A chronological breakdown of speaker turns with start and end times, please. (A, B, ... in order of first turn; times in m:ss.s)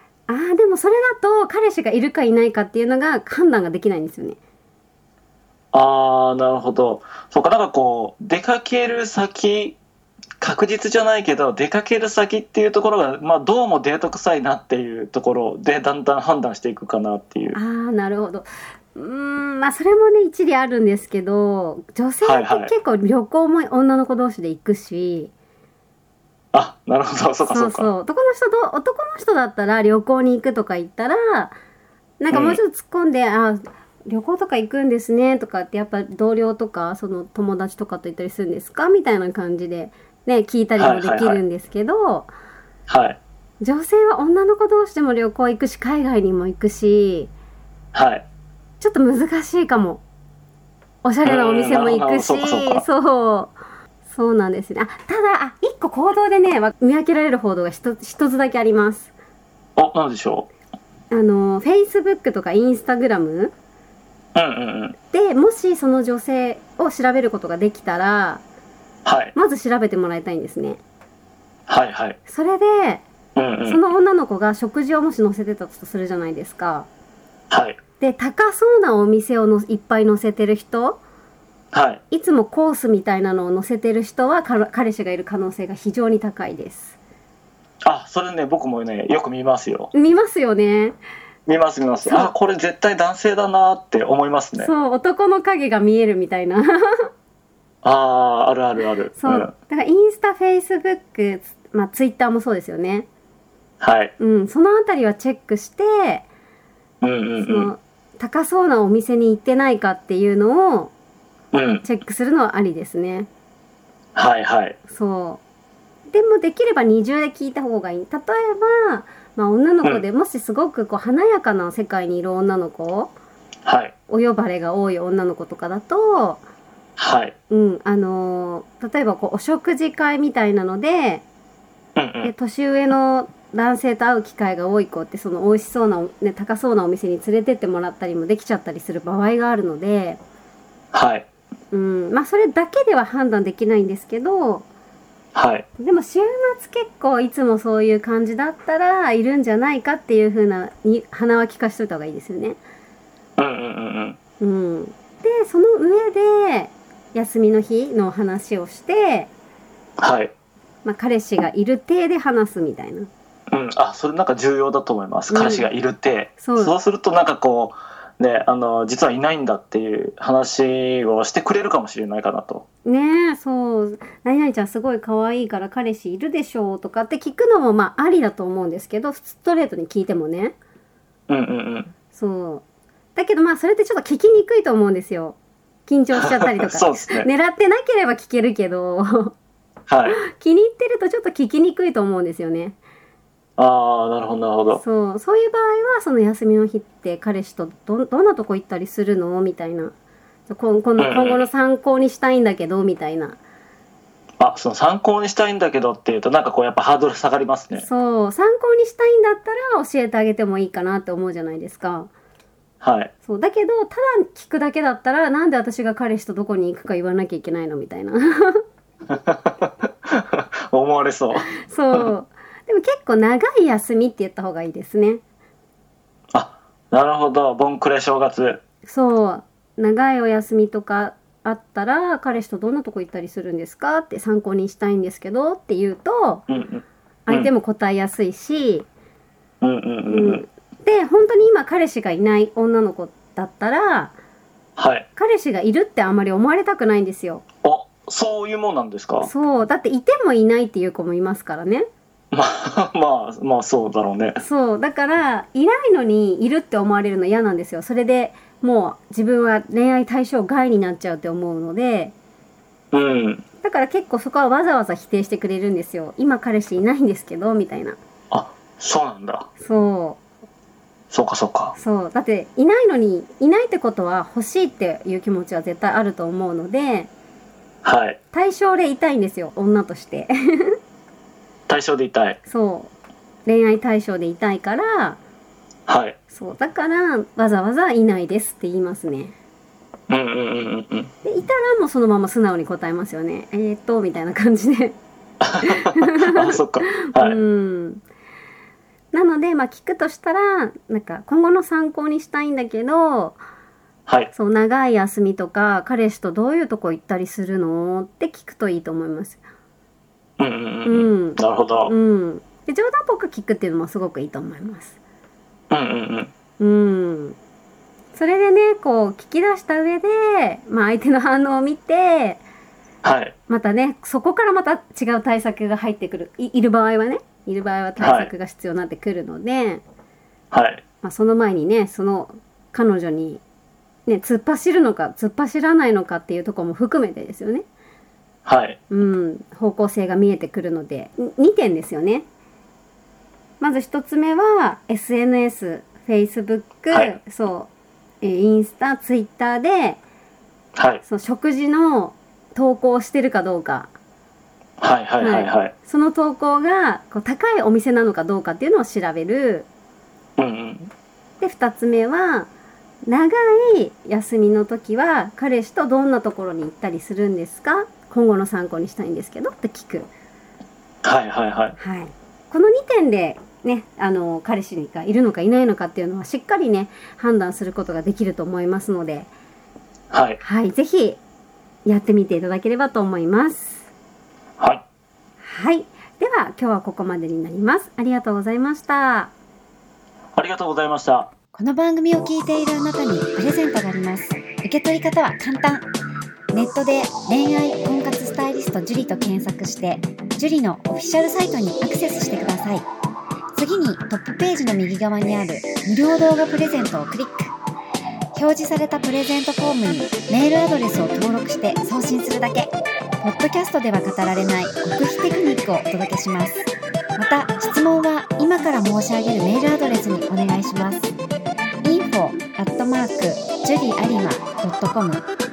0:00.3-0:04.4 A
0:05.7-0:09.8 B
0:10.4-0:17.6 B
0:17.5-0:25.3 A
0:22.2-0:22.7 B
0:26.5-0:27.9 B
0:27.4-0:31.6 A
0:32.2-0:42.3 A
0:32.3-0:32.6 B
0:40.8-0:41.4 B
0:42.9-0:43.2 B
0:43.6-0:47.3 A
0:47.9-0:48.2 B
0:48.8-0:50.0 A
0:51.0-0:53.5 A
0:51.2-0:52.8 B
0:54.1-0:59.1 A
0:59.8-1:00.5 B
1:01.1-1:03.5 A
1:04.3-1:04.9 B
1:05.1-1:08.4 A
1:09.0-1:09.3 B
1:09.3-1:10.8 A
1:11.7-1:12.2 B
1:12.3-1:13.0 A
1:13.3-1:13.8 B
1:13.6-1:16.9 A
1:17.5-1:17.8 B
1:18.0-1:21.0 A
1:21.7-1:22.0 B
1:22.1-1:27.0 A
1:27.8-1:29.9 B
1:29.9-1:31.0 A
1:31.5-1:34.7 B
1:32.0-1:32.3 A
1:34.6-1:37.1 A
1:37.8-1:39.5 B
1:39.2-1:43.1 A
1:43.8-1:44.1 B
1:44.2-1:46.2 A
1:47.0-1:47.7 B
1:47.4-1:50.9 A
1:51.5-1:51.8 B
1:51.8-1:53.3 A
1:54.1-1:54.8 B
1:54.9-1:55.4 A
1:56.1-2:03.1 A
2:03.6-2:03.9 B
2:04.1-2:06.4 A
2:07.0-2:07.3 B
2:07.5-2:11.2 A
2:12.0-2:12.3 B
2:12.2-2:20.2 A
2:20.9-2:21.3 B
2:21.7-2:24.6 A
2:25.3-2:25.7 B
2:25.8-2:32.6 A
2:33.4-2:34.2 B
2:34.4-2:39.3 A
2:40.0-2:40.3 B
2:40.8-2:43.1 A
2:43.5-2:52.6 B
2:45.3-2:45.7 A
2:46.4-2:46.7 A
2:52.8-3:00.5 A
3:01.3-3:01.9 B
3:02.1-3:02.6 A
3:03.2-3:09.3 A
3:06.2-3:07.3 B
3:09.9-3:10.2 B
3:10.0-3:12.8 A
3:13.6-3:14.8 B
3:14.7-3:19.9 A
3:20.5-3:23.4 A
3:21.0-3:21.4 B
3:24.4-3:27.8 B
3:27.7-3:32.1 A
3:32.8-3:33.1 B
3:33.2-3:38.6 A
3:39.1-3:42.0 B
3:41.7-3:45.2 A
3:46.3-3:48.6 B
3:48.8-3:56.4 A
3:56.5-3:57.5 B
3:57.2-3:58.9 A
3:59.6-4:00.4 B
4:00.1-4:04.1 A
4:04.8-4:05.1 B
4:05.2-4:07.4 A
4:07.6-4:09.3 B
4:09.2-4:11.8 A
4:12.3-4:14.4 B
4:14.4-4:22.1 A
4:22.9-4:23.4 B
4:23.6-4:28.0 A
4:28.3-4:29.5 B
4:29.6-4:30.2 A
4:31.1-4:31.7 B
4:31.8-4:37.1 A
4:37.8-4:38.2 B
4:38.3-4:40.8 A
4:41.7-4:42.4 B
4:42.4-4:42.9 A
4:43.4-4:45.2 A
4:45.9-4:46.2 B
4:46.3-4:49.3 A
4:50.1-4:51.1 B
4:51.2-4:55.0 A
4:55.4-4:57.4 B
4:55.6-4:58.0 A
4:59.1-5:03.4 A
5:04.3-5:09.4 A
5:10.4-5:11.9 B
5:10.8-5:15.0 A
5:15.7-5:16.3 B
5:16.6-5:17.4 A
5:18.1-5:22.4 A
5:23.0-5:23.3 B
5:23.5-5:29.8 A
5:28.0-5:28.3 B
5:30.5-5:30.8 B
5:31.0-5:33.4 A
5:34.1-5:37.6 A
5:38.4-5:38.8 B
5:38.9-5:42.2 A
5:43.6-5:47.7 A
5:48.2-5:50.0 A
5:50.8-5:51.0 B
5:51.0-5:53.9 A
5:54.8-5:55.7 B
5:55.2-5:59.7 A
6:00.4-6:00.9 B
6:01.4-6:02.5 A
6:03.0-6:10.1 A
6:11.0-6:11.8 B
6:11.8-6:19.3 A
6:20.1-6:20.4 B
6:20.4-6:21.2 A
6:21.8-6:23.8 A
6:25.4-6:29.3 A
6:30.3-6:31.3 B
6:31.5-6:35.9 C
6:36.5-6:42.9 C
6:43.5-6:47.5 C
6:48.3-7:01.1 C
7:01.8-7:05.3 C